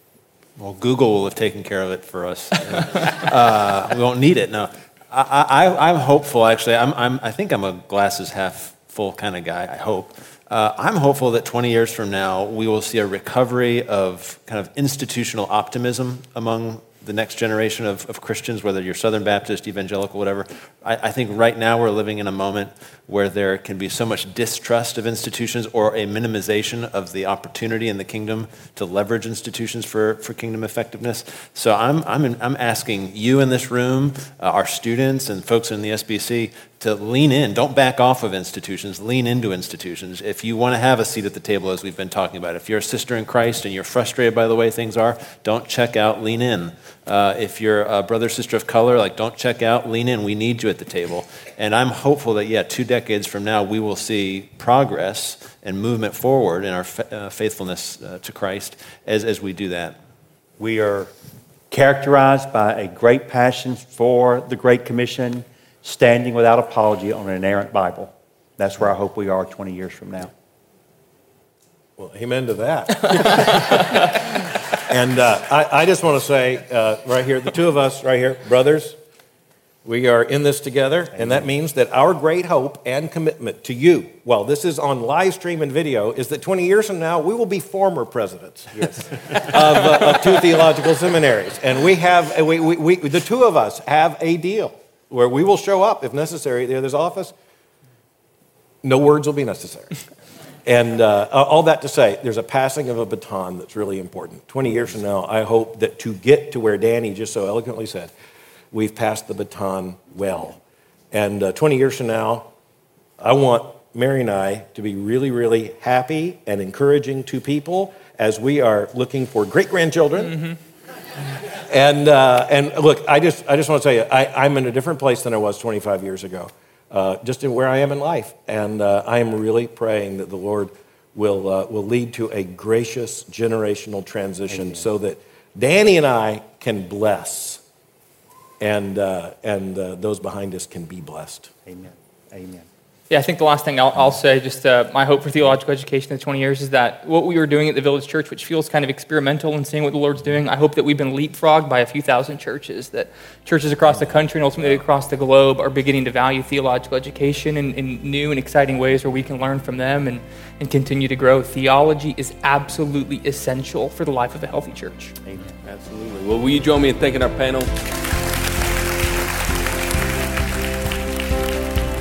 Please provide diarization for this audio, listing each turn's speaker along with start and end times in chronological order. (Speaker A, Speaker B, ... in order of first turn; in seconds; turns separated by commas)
Speaker A: 0.6-60.0, Speaker B: 60.6-61.1, Speaker B: 61.7-70.3, Speaker C: 72.0-79.0, Speaker C: 79.8-97.3, Speaker B: 81.2-81.5, Speaker B: 88.7-89.5, Speaker C: 98.8-100.0, Speaker C: 100.6-108.1, Speaker C: 108.7-112.5, Speaker C: 113.2-120.5, Speaker C: 121.7-137.6, Speaker B: 134.5-134.9, Speaker C: 138.6-141.5, Speaker B: 141.7-142.7, Speaker D: 143.1-165.1, Speaker B: 165.2-165.5, Speaker E: 165.6-167.7